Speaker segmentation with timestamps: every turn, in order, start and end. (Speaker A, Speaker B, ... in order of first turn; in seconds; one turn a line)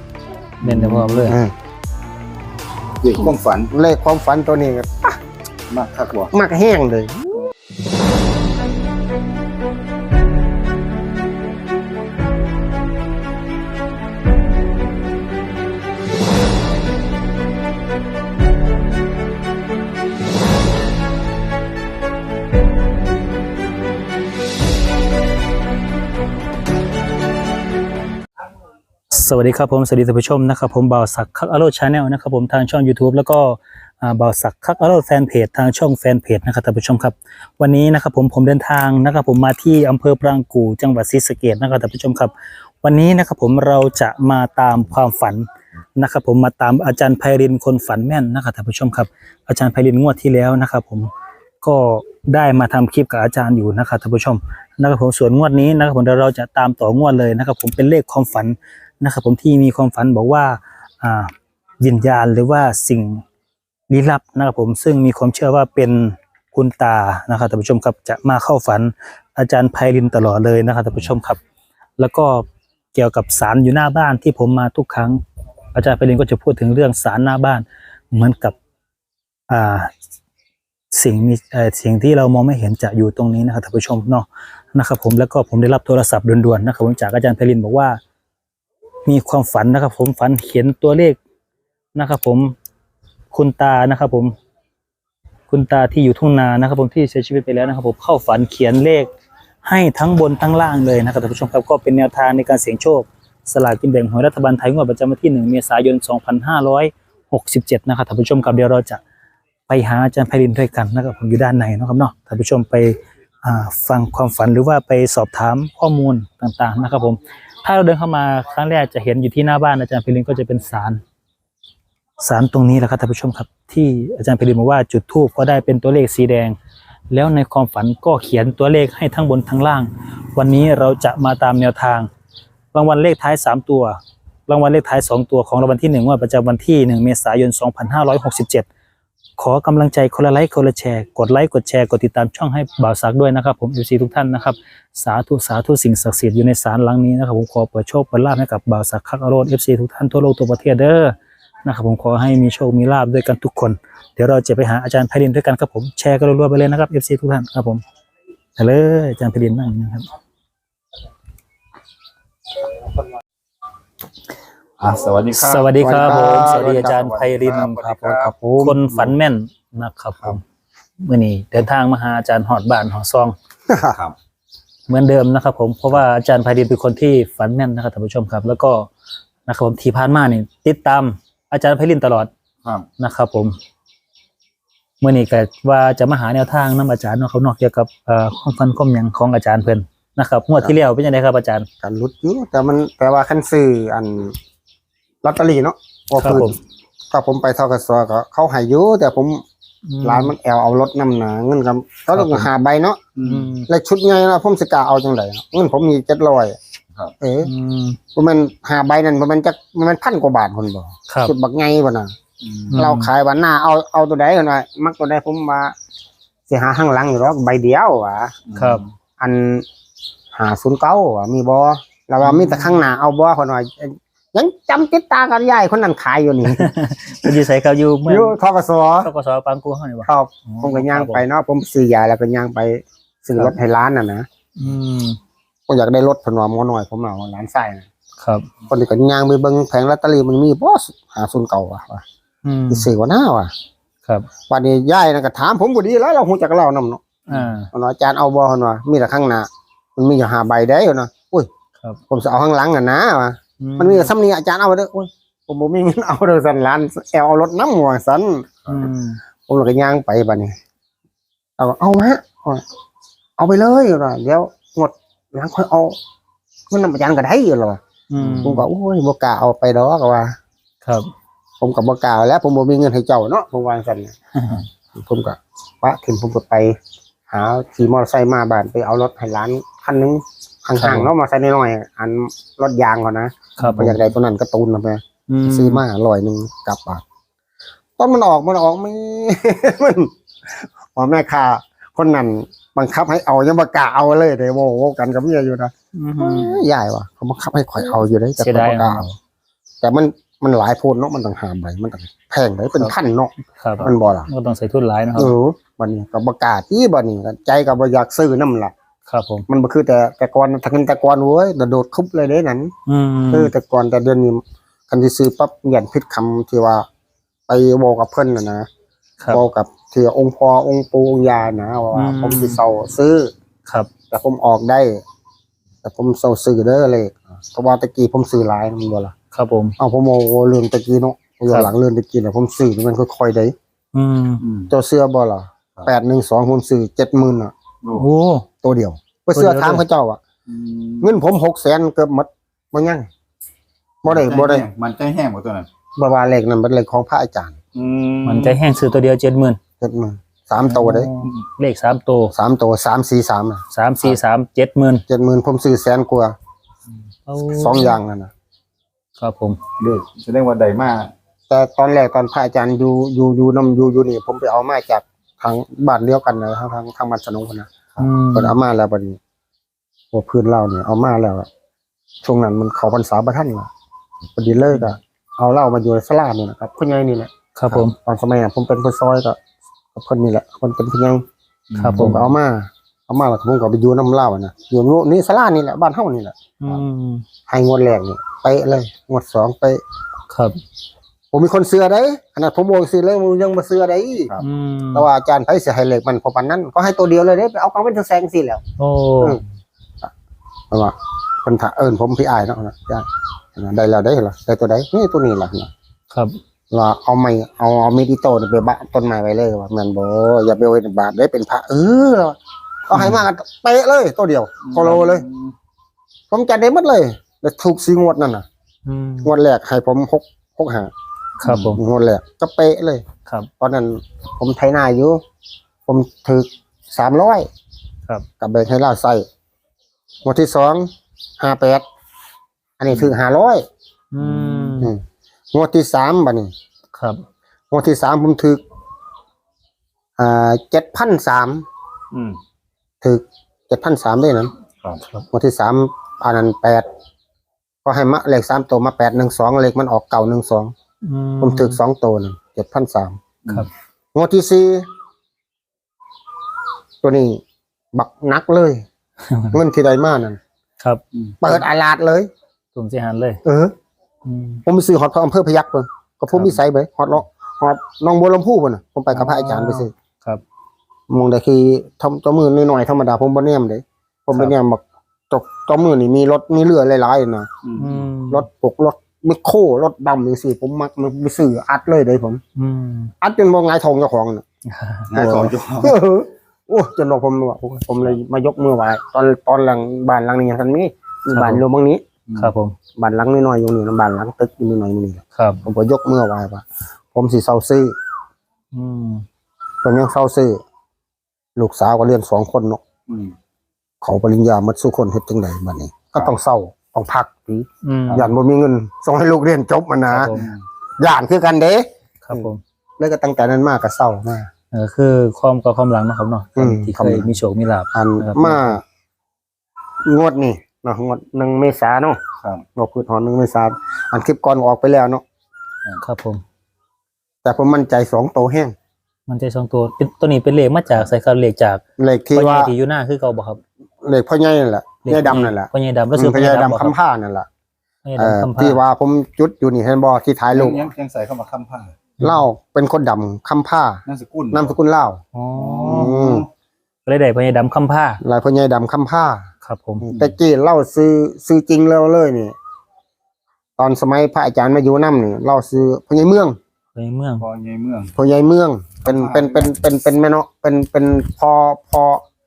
Speaker A: 0.6-1.4
Speaker B: 0.6-1.4
Speaker C: 1.3-1.5
Speaker A: 3.0-3.7
Speaker C: 3.7-5.1
Speaker A: 5.7-6.3
Speaker C: 6.3-7.5
Speaker B: 29.1-42.3
Speaker B: 42.8-51.1
Speaker B: 51.6-63.2
Speaker B: 63.9-71.4
Speaker B: 72.0-75.2
Speaker B: 75.7-78.6
Speaker B: 79.5-79.9
Speaker B: 80.9-88.0
Speaker B: 89.0-91.2
Speaker B: 92.0-92.5
Speaker B: 93.3-94.3
Speaker B: 95.5-99.1
Speaker B: 99.6-109.0
Speaker B: 109.7-121.0
Speaker B: 122.2-126.6
Speaker B: 127.1-132.1
Speaker B: 132.7-138.7
Speaker B: 139.4-157.8
Speaker B: 158.6-160.1
Speaker A: 164.8-168.2
Speaker B: 165.3-170.4
Speaker C: 165.8-169.1
Speaker B: 171.0-173.3
Speaker C: 173.7-174.0
Speaker B: 174.9-178.9
Speaker B: 179.5-182.3
Speaker B: 183.0-183.6
Speaker B: 185.0-191.7
Speaker C: 191.8-194.4
Speaker C: 195.2-196.6
Speaker B: 196.2-196.6
Speaker C: 197.1-199.4
Speaker B: 199.9-200.3
Speaker C: 200.0-203.0
Speaker B: 202.2-202.5
Speaker A: 203.2-203.5
Speaker B: 203.2-203.7
Speaker C: 203.7-206.6
Speaker C: 207.2-207.5
Speaker B: 207.4-208.0
Speaker C: 208.2-212.1
Speaker B: 211.1-211.3
Speaker A: 212.4-212.8
Speaker B: 212.7-213.1
Speaker C: 212.8-215.8
Speaker C: 216.5-218.3
Speaker A: 218.5-218.9
Speaker B: 218.6-218.8
Speaker C: 219.2-219.7
Speaker C: 220.3-226.7
Speaker B: 222.2-222.8
Speaker B: 226.5-228.4
Speaker C: 228.1-229.1
Speaker B: 229.0-231.2
Speaker C: 230.1-234.3
Speaker B: 234.6-235.2
Speaker C: 235.7-237.9
Speaker B: 238.2-238.5
Speaker C: 238.7-242.0
Speaker B: 242.4-242.9
Speaker C: 242.7-243.5
Speaker C: 244.5-247.1
Speaker B: 247.3-247.7
Speaker C: 247.7-251.5
Speaker C: 252.1-258.6
Speaker B: 253.6-254.1
Speaker B: 258.7-259.2
Speaker C: 259.5-260.5
Speaker C: 261.6-262.6
Speaker C: 263.4-266.0
Speaker C: 266.7-267.8
Speaker B: 268.1-268.7
Speaker A: 268.2-268.5
Speaker C: 268.4-270.4
Speaker B: 270.8-271.1
Speaker C: 271.6-274.1
Speaker B: 274.4-274.6
Speaker C: 274.9-276.8
Speaker C: 277.3-287.0
Speaker B: 280.8-281.1
Speaker B: 283.6-284.0
Speaker B: 285.3-285.8
Speaker C: 288.0-299.1
Speaker B: 295.9-296.6
Speaker B: 298.4-299.2
Speaker C: 299.8-304.3
Speaker B: 303.6-305.3
Speaker C: 305.2-308.7
Speaker B: 309.1-309.5
Speaker C: 309.5-312.7
Speaker B: 312.9-313.5
Speaker C: 313.3-316.9
Speaker C: 317.5-318.7
Speaker C: 319.3-323.3
Speaker B: 321.9-322.6
Speaker C: 324.1-325.0
Speaker C: 325.8-329.1
Speaker B: 329.3-329.8
Speaker C: 329.8-333.5
Speaker B: 333.9-334.4
Speaker A: 334.4-334.7
Speaker C: 334.7-337.5
Speaker A: 337.8-338.1
Speaker B: 338.0-338.5
Speaker C: 338.6-340.2
Speaker B: 339.4-339.8
Speaker A: 340.5-341.2
Speaker C: 341.0-343.1
Speaker C: 344.0-344.6
Speaker A: 344.1-345.7
Speaker C: 346.0-347.6
Speaker A: 347.8-348.6
Speaker B: 348.2-349.6
Speaker C: 349.8-351.1
Speaker B: 350.7-352.3
Speaker C: 352.3-354.2
Speaker B: 353.7-355.1
Speaker C: 355.1-356.3
Speaker B: 357.3-358.0
Speaker C: 357.5-358.3
Speaker B: 359.2-359.6
Speaker A: 359.8-361.1
Speaker C: 361.5-367.7
Speaker B: 368.0-368.6
Speaker C: 368.3-369.2
Speaker C: 370.1-371.5
Speaker C: 372.2-373.7
Speaker C: 374.4-379.4
Speaker B: 377.6-377.9
Speaker C: 379.9-381.2
Speaker A: 381.7-382.3
Speaker B: 381.8-382.2
Speaker C: 381.9-386.3
Speaker B: 386.6-387.2
Speaker C: 387.5-389.8
Speaker B: 390.3-390.6
Speaker C: 391.3-394.3
Speaker B: 394.4-395.1
Speaker C: 394.9-398.6
Speaker B: 398.8-399.4
Speaker C: 400.7-405.7
Speaker B: 406.1-406.4
Speaker C: 406.7-415.2
Speaker A: 414.6-415.5
Speaker C: 416.3-418.4
Speaker B: 418.9-419.3
Speaker C: 419.2-420.9
Speaker B: 421.4-421.8
Speaker A: 421.4-421.8
Speaker C: 421.7-423.1
Speaker C: 423.6-425.2
Speaker C: 425.9-427.5
Speaker C: 428.4-429.3
Speaker C: 430.2-431.9
Speaker C: 432.8-433.6
Speaker B: 434.1-434.9
Speaker C: 434.6-436.5
Speaker B: 436.9-437.2
Speaker C: 437.7-438.6
Speaker C: 440.2-441.6
Speaker A: 442.1-442.4
Speaker C: 443.0-444.5
Speaker C: 445.3-446.9
Speaker C: 447.9-450.7
Speaker B: 451.0-451.8
Speaker C: 451.4-453.2
Speaker A: 453.4-453.7
Speaker C: 454.1-454.9
Speaker C: 457.0-457.4
Speaker C: 457.9-458.9
Speaker B: 459.3-459.6
Speaker C: 459.5-460.4
Speaker B: 460.8-461.5
Speaker C: 461.4-462.3
Speaker B: 462.8-463.4
Speaker C: 463.4-463.7
Speaker B: 464.2-464.6
Speaker C: 464.7-469.9
Speaker B: 469.1-470.4
Speaker C: 471.1-477.5
Speaker A: 477.6-478.1
Speaker B: 477.8-478.4
Speaker C: 478.3-482.4
Speaker B: 482.6-483.1
Speaker C: 483.2-484.4
Speaker B: 484.7-485.1
Speaker A: 485.1-486.0
Speaker C: 485.1-492.0
Speaker B: 491.3-491.6
Speaker A: 492.3-492.5
Speaker B: 492.4-492.8
Speaker C: 493.0-497.9
Speaker B: 495.4-495.6
Speaker B: 498.7-499.2
Speaker C: 499.8-500.6
Speaker C: 501.6-502.8
Speaker A: 503.1-503.3
Speaker C: 504.0-510.3
Speaker B: 507.8-508.3
Speaker B: 510.1-510.5
Speaker A: 510.3-510.6
Speaker C: 511.0-512.5
Speaker B: 512.2-512.6
Speaker C: 513.0-514.5
Speaker B: 514.7-518.8
Speaker C: 516.6-517.3
Speaker C: 517.9-518.8
Speaker C: 520.1-522.2
Speaker C: 522.8-525.2
Speaker B: 526.0-526.4
Speaker C: 527.4-528.8
Speaker B: 529.3-531.8
Speaker C: 532.0-532.7
Speaker B: 532.4-533.6
Speaker C: 534.0-537.5
Speaker B: 535.1-536.9
Speaker B: 538.0-538.8
Speaker C: 538.2-540.8
Speaker A: 540.5-542.0
Speaker C: 542.2-545.2
Speaker A: 544.1-544.8
Speaker B: 545.3-546.1
Speaker A: 545.6-546.5
Speaker C: 545.8-546.5
Speaker B: 547.1-548.2
Speaker C: 548.2-549.5
Speaker B: 549.6-550.0
Speaker C: 550.0-552.5
Speaker A: 550.1-550.4
Speaker C: 553.8-556.6
Speaker B: 557.0-557.5
Speaker A: 557.4-558.1
Speaker C: 558.2-562.2
Speaker A: 559.0-559.8